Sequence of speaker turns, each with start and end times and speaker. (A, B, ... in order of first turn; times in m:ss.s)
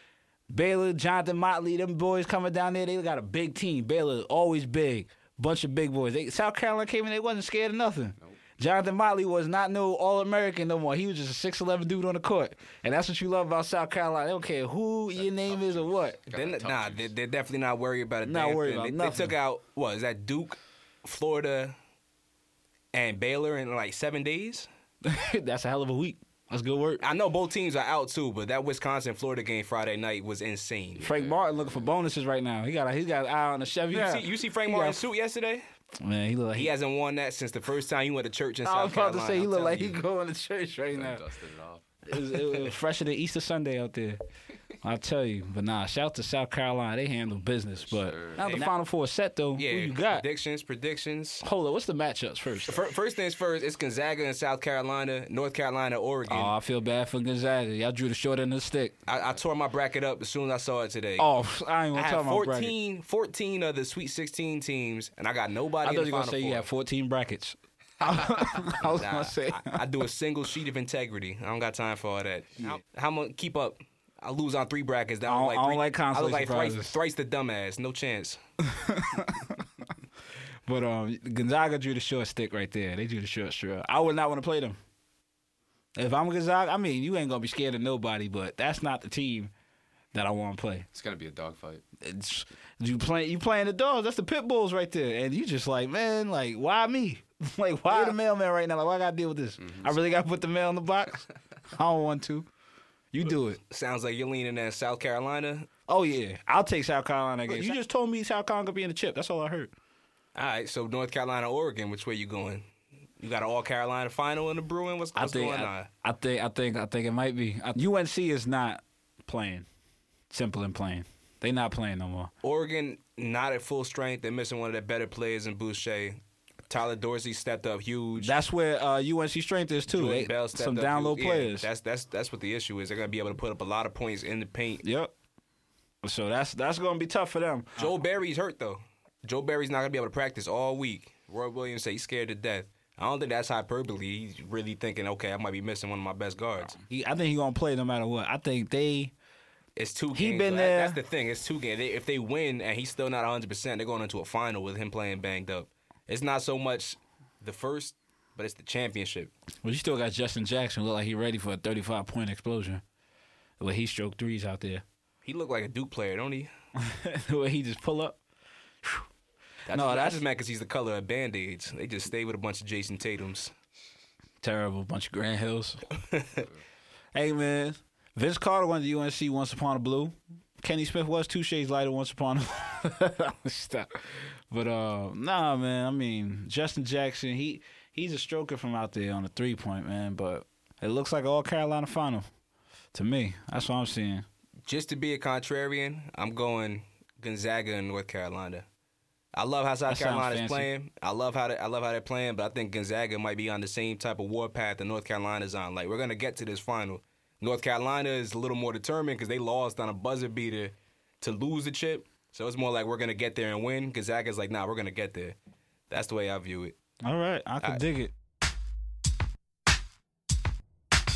0:00.5-0:16.2 A
0:15.1-0:17.1 B
0:16.3-0:21.8 C
0:18.2-0:19.4 A
0:22.9-0:24.7 C
0:25.0-0:27.0 A
0:27.0-0:31.0 C
0:31.0-0:31.9 B
0:31.0-0:35.0 A
0:33.9-0:35.6 C
0:36.0-0:36.7 A
0:36.6-0:40.0 C
0:38.6-0:41.2 A
0:40.9-0:41.8 B
0:42.1-0:44.2 A
0:44.8-0:50.2 A
0:47.8-0:48.6 B
0:48.4-0:48.7 C
0:49.6-0:51.4 C
0:51.4-0:52.8 A
0:52.7-0:56.5 C
0:56.3-0:58.9 A
0:59.1-1:01.3 C
1:01.2-1:02.7 A
1:01.9-1:06.7 C
1:05.8-1:09.8 A
1:08.8-1:18.4 C
1:15.2-1:17.0 A
1:18.6-1:19.6 A
1:20.6-1:24.8 A
1:26.0-1:29.5 A
1:30.1-1:30.8 A
1:30.9-1:31.8 B
1:32.0-1:42.5 A
1:39.6-1:39.9 B
1:43.1-1:43.6 A
1:43.7-1:45.7 C
1:45.9-1:49.7 A
1:50.3-1:52.6 C
1:53.2-1:55.9 C
1:55.2-1:59.7 A
2:00.3-2:02.3 A
2:02.4-2:08.3 C
2:08.2-2:11.7 A
2:09.9-2:14.8 C
2:14.8-2:15.1 A
2:16.0-2:17.9 A
2:17.8-2:26.8 C
2:26.8-2:29.1 A
2:29.8-2:39.3 C
2:30.1-2:31.0 A
2:39.6-2:42.8 A
2:43.6-2:44.8 A
2:45.2-2:46.5 C
2:46.8-2:48.2 A
2:49.7-2:53.5 C
2:49.7-2:50.2 A
2:54.4-2:55.8 A
2:56.0-2:56.4 C
2:57.1-3:12.3 A
3:12.9-3:14.2 A
3:14.6-3:18.6 C
3:19.3-3:35.4 C
3:19.9-3:20.7 A
3:35.9-3:36.8 C
3:37.0-3:38.1 A